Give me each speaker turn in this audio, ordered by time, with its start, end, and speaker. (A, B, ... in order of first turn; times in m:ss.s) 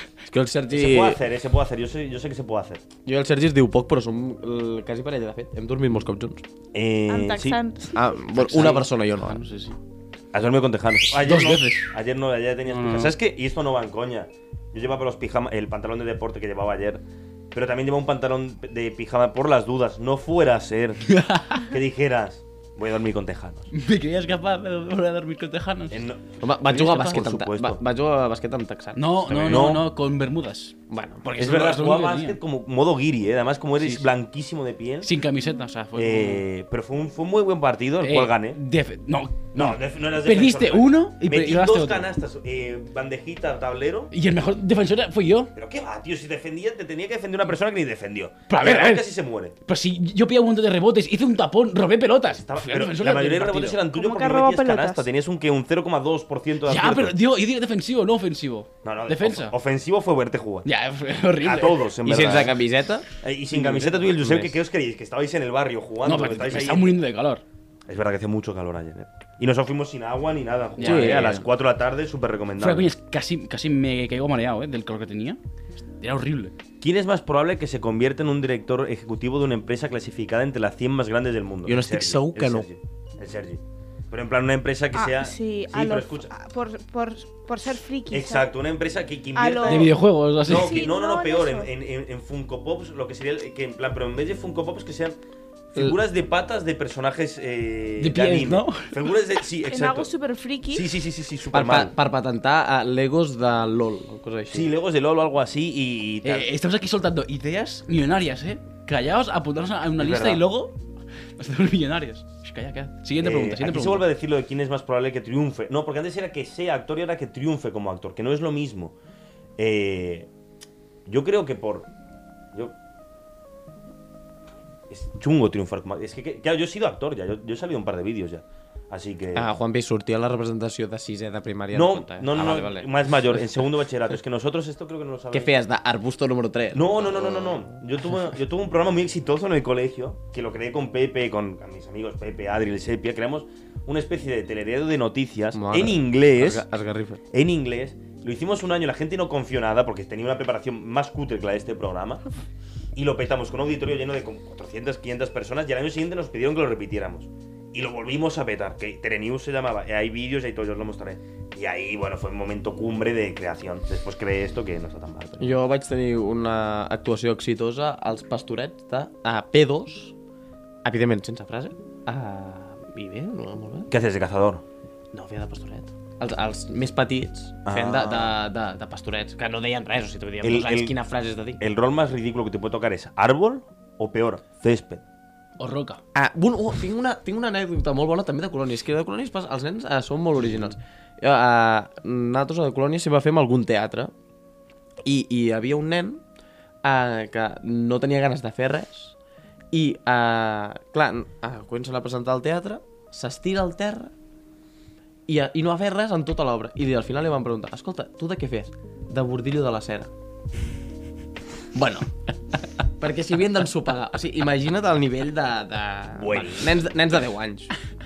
0:00.3-0:01.2 A
0:00.7-0:02.8 B
0:03.0-0:06.4 A
0:06.7-0:07.6 B
0:07.1-0:08.0 C
0:07.9-0:09.4 A
0:08.4-0:09.8 D
0:10.3-0:23.7 B
0:11.1-0:11.9 D
0:12.7-0:13.1 D
0:21.1-0:21.6 D
0:23.7-0:26.1 D
0:25.9-0:27.8 B
0:26.4-0:29.7 A
0:26.7-0:27.2 D
0:29.0-0:32.4 D
0:29.3-0:29.9 B
0:30.9-0:31.2 A
0:31.4-0:35.1 B
0:33.8-0:34.1 D
0:35.0-0:36.4 D
0:35.9-0:38.6 B
0:38.0-0:42.1 D
0:39.5-0:44.1 B
0:44.1-0:45.5 D
0:45.5-0:49.5 B
0:48.5-0:49.1 D
0:49.7-0:53.8 D
0:52.3-0:57.2 B
0:53.9-0:55.0 C
0:56.7-0:59.5 D
0:58.8-1:00.7 B
1:00.6-1:01.9 D
1:01.4-1:02.6 B
1:02.0-1:04.6 A
1:03.2-1:06.9 B
1:06.0-1:07.4 D
1:07.9-1:12.9 B
1:10.8-1:11.4 D
1:10.8-1:11.4 A
1:12.6-1:15.4 D
1:16.0-1:16.5 D
1:16.8-1:26.3 B
1:21.6-1:22.7 A
1:24.9-1:28.5 C
1:28.1-1:35.2 B
1:29.3-1:31.7 C
1:29.6-1:30.9 D
1:35.7-1:40.1 B
1:38.0-1:39.1 D
1:39.7-1:40.9 C
1:40.7-1:41.9 B
1:41.5-1:44.7 A
1:44.5-1:46.5 B
1:46.2-1:50.8 D
1:50.0-1:50.4 B
1:51.4-1:54.0 D
1:53.2-1:58.9 B
1:59.6-2:00.3 B
2:01.0-2:01.9 B
2:04.9-2:09.5 B
2:09.3-2:13.4 A
2:11.7-2:15.5 B
2:15.3-2:17.8 A
2:16.7-2:26.6 B
2:25.5-2:27.2 A
2:27.3-2:32.2 B
2:32.9-2:45.5 B
2:45.4-2:50.1 A
2:50.8-2:53.9 A
2:53.9-2:54.6 B
2:55.1-3:01.6 A
2:57.6-2:58.4 B
3:00.4-3:01.0 B
3:01.6-3:05.0 B
3:05.6-3:06.0 D
3:06.1-3:14.1 A
3:15.0-3:16.2 A
3:16.8-3:19.2 A
3:19.7-3:24.1 A
3:25.3-3:30.1 A
3:31.8-3:32.0 A
3:33.0-3:37.7 A
3:36.2-3:36.8 B